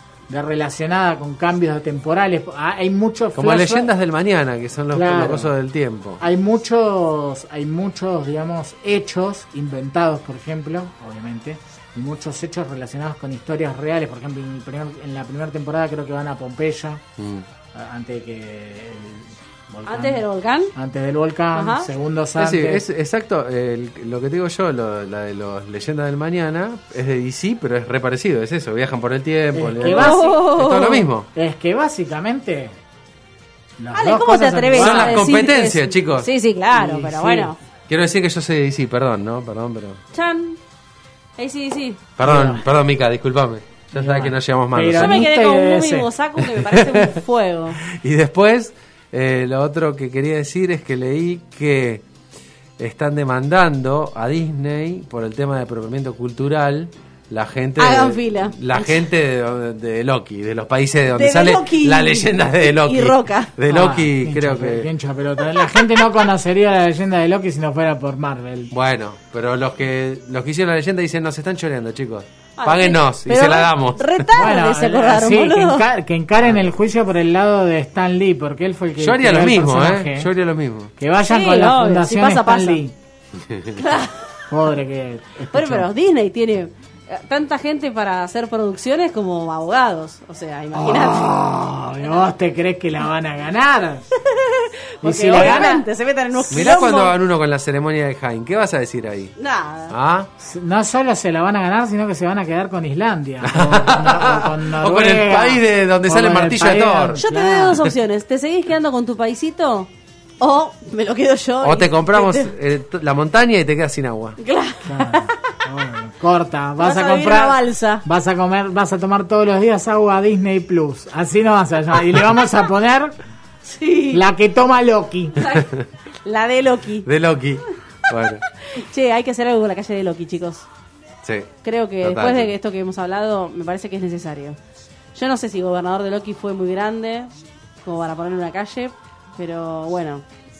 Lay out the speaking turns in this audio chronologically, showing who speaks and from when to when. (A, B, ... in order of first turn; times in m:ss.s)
0:00.3-0:03.9 A
0:03.3-0:06.2 B
0:04.9-0:05.5 A
0:06.2-0:17.0 A
0:17.2-0:17.4 B
0:17.7-0:22.8 A
0:19.8-0:20.7 C
0:21.5-0:21.9 C
0:22.4-0:31.3 B
0:29.5-0:30.4 A
0:29.8-0:31.0 C
0:31.3-0:32.7 A
0:33.8-0:35.3 A
0:33.9-0:37.6 C
0:34.7-0:36.3 B
0:36.7-0:37.5 A
0:37.9-0:40.0 B
0:40.1-0:40.6 C
0:41.4-0:42.0 C
0:42.2-0:45.2 B
0:42.2-0:42.7 A
0:43.9-0:46.1 A
0:44.9-0:47.8 C
0:46.4-0:47.2 B
0:47.8-0:52.0 B
0:52.8-1:04.9 B
0:57.8-0:59.0 C
1:01.1-1:03.5 C
1:03.7-1:08.7 A
1:05.5-1:06.2 C
1:08.7-1:14.2 B
1:12.6-1:15.9 C
1:14.3-1:20.3 A
1:19.0-1:20.9 B
1:21.0-1:22.9 A
1:21.2-1:22.8 C
1:23.5-1:23.8 B
1:23.7-1:24.2 C
1:24.5-1:25.9 A
1:25.5-1:31.3 C
1:30.7-1:34.1 A
1:34.2-1:37.1 C
1:35.0-1:35.8 A
1:36.5-1:39.3 B
1:39.4-1:39.9 C
1:39.9-1:40.3 B
1:40.4-1:47.9 A
1:43.4-1:47.2 B
1:47.2-1:52.5 C
1:51.6-1:54.4 B
1:54.4-1:55.5 C
1:54.8-2:03.2 A
1:56.8-1:58.0 C
2:03.6-2:04.2 C
2:04.1-2:05.4 A
2:05.4-2:05.7 C
2:05.5-2:05.9 B
2:06.2-2:07.1 C
2:07.0-2:08.4 B
2:08.1-2:10.7 C
2:11.2-2:11.5 B
2:11.6-2:14.6 C
2:12.0-2:12.5 B
2:15.1-2:17.3 C
2:17.8-2:20.2 C